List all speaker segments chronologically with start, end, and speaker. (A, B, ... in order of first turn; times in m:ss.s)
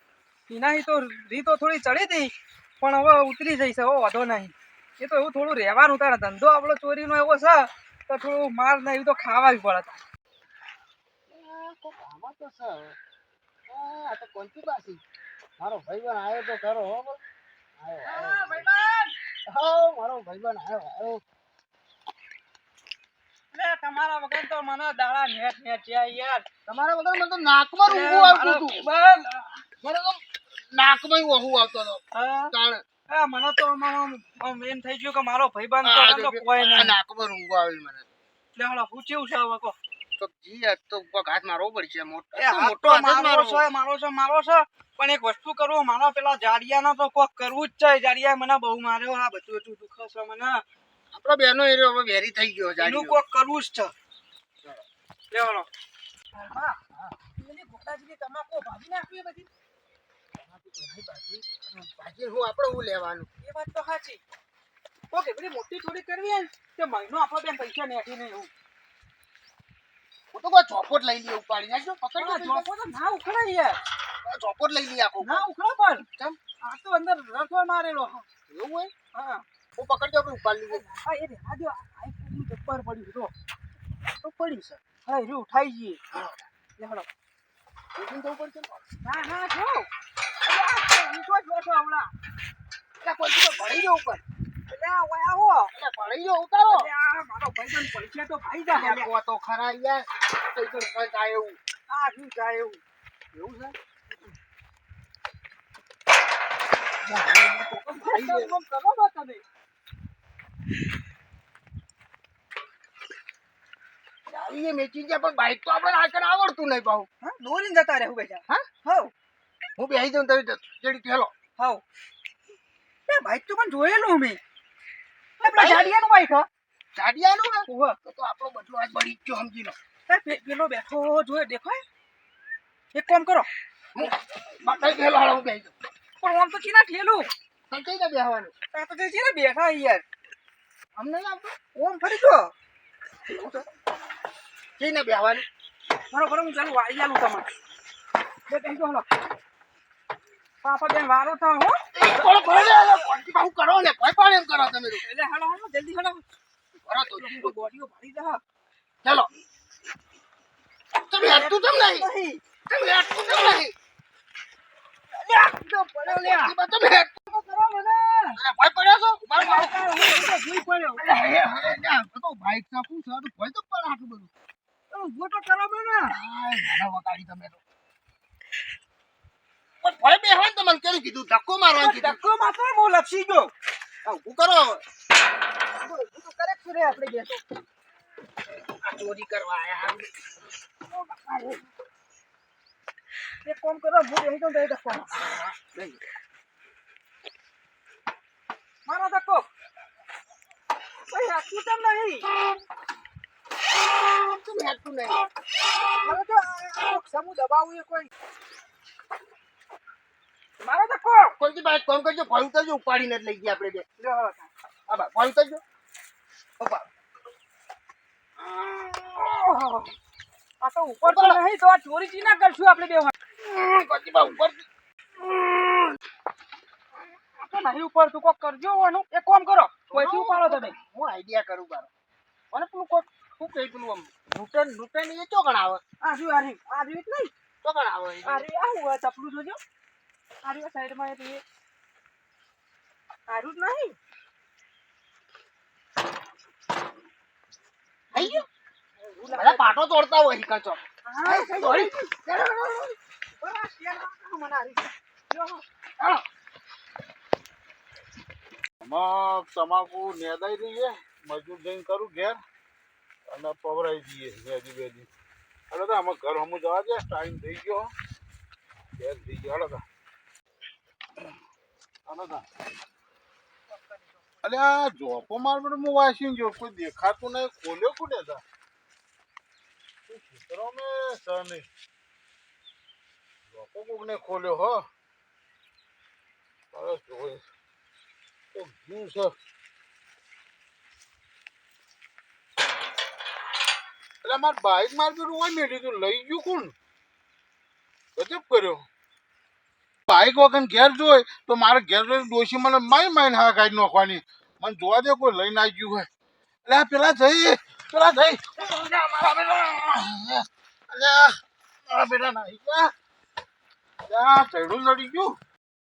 0:00.5-0:10.0 A
0:11.3-0:13.0 B
0:13.7-0:15.0 B
0:15.6-0:17.2 B
0:17.8-0:18.6 B
0:18.1-0:19.1 A
0:19.5-0:21.2 B
0:23.5-0:26.4 A
0:26.7-0:28.9 B
0:27.9-0:29.5 A
0:29.8-0:30.2 B
0:30.7-0:32.8 B
0:32.1-0:32.5 A
0:33.1-0:37.0 A
0:35.8-0:38.1 B
0:38.6-0:39.8 A
0:40.2-0:43.6 B
0:42.4-0:50.6 A
0:51.1-0:53.2 B
0:52.8-0:53.9 A
0:55.3-0:55.7 A
0:56.3-0:56.8 A
0:57.4-0:59.5 A
1:00.4-1:03.3 B
1:03.4-1:04.2 A
1:05.1-1:08.5 A
1:10.3-1:12.7 B
1:12.2-1:13.8 A
1:14.2-1:15.4 B
1:15.2-1:16.1 A
1:16.6-1:18.3 A
1:18.5-1:18.9 B
1:19.1-1:19.4 A
1:19.8-1:20.8 B
1:20.7-1:23.3 A
1:24.1-1:24.8 B
1:25.0-1:26.0 A
1:26.1-1:26.5 B
1:26.8-1:27.1 A
1:28.0-1:28.8 B
1:29.0-1:29.9 A
1:30.4-1:32.1 A
1:33.0-1:34.2 B
1:34.7-1:35.7 A
1:35.7-1:36.9 B
1:36.7-1:39.1 A
1:38.7-1:41.6 B
1:41.9-1:42.8 A
1:43.3-1:43.8 B
1:47.0-1:48.5 B
1:48.0-1:49.4 A
1:54.3-1:57.1 B
1:57.2-1:59.1 A
1:59.8-2:01.3 B
2:01.6-2:01.8 A
2:03.1-2:04.4 A
2:05.4-2:06.5 A
2:05.4-2:05.8 B
2:06.9-2:09.8 B
2:07.7-2:08.0 A
2:10.1-2:11.8 A
2:12.9-2:13.5 A
2:14.0-2:15.7 B
2:16.2-2:17.3 A
2:17.7-2:18.5 B
2:18.7-2:20.0 A
2:21.0-2:21.6 B
2:21.7-2:22.5 A
2:23.3-2:23.6 B
2:24.8-2:25.5 B
2:26.1-2:27.5 A
2:28.5-2:29.1 A
2:30.6-2:31.8 A
2:31.9-2:35.0 B
2:35.0-2:36.3 A
2:36.8-2:37.5 B
2:37.1-2:38.4 A
2:39.0-2:39.3 B
2:41.0-2:42.1 B
2:41.2-2:42.4 A
2:42.7-2:43.7 B
2:45.1-2:46.5 A
2:46.1-2:47.1 B
2:47.3-2:48.4 A
2:48.4-2:49.8 B
2:49.4-2:51.1 A
2:51.0-2:54.3 B
2:54.9-2:56.2 A
2:56.1-2:57.6 B
2:59.8-3:02.2 B
3:01.8-3:03.5 A
3:04.0-3:04.8 B
3:05.8-3:07.4 A
3:08.8-3:10.1 B
3:10.9-3:11.6 A
3:13.4-3:15.2 A
3:15.1-3:16.0 B
3:18.8-3:19.5 A
3:21.1-3:22.3 A
3:24.0-3:25.2 B
3:25.9-3:28.1 A
3:30.6-3:31.4 A
3:31.4-3:33.8 B
3:34.0-3:34.5 A
3:34.9-3:35.6 B
3:36.6-3:36.8 B
3:38.4-3:39.9 A
3:40.6-3:43.1 A
3:41.0-3:41.4 B
3:43.4-3:44.6 B
3:45.2-3:46.0 B
3:47.4-3:50.8 A
3:49.9-3:51.9 B
3:52.5-3:55.8 B
3:56.0-3:57.3 A
3:57.6-3:58.5 B
3:58.2-3:59.6 A
4:00.4-4:01.4 A
4:03.3-4:04.0 A
4:08.1-4:08.4 B
4:08.1-4:08.4 A
4:09.0-4:09.8 A
4:09.3-4:13.0 B
4:11.0-4:12.1 A
4:13.4-4:15.6 A
4:18.8-4:22.4 C
4:23.3-4:25.1 C
4:25.7-4:27.9 C
4:29.0-4:29.8 C
4:32.1-4:32.4 C
4:33.7-4:34.3 A
4:34.4-4:38.4 C
4:40.1-4:41.7 C
4:43.5-4:44.9 C
4:46.7-4:47.4 C
4:48.5-4:49.3 C
4:54.2-4:56.7 C
4:58.2-4:58.8 C
5:00.1-5:06.1 C
5:06.7-5:11.4 C
5:11.9-5:12.9 C
5:14.1-5:15.4 C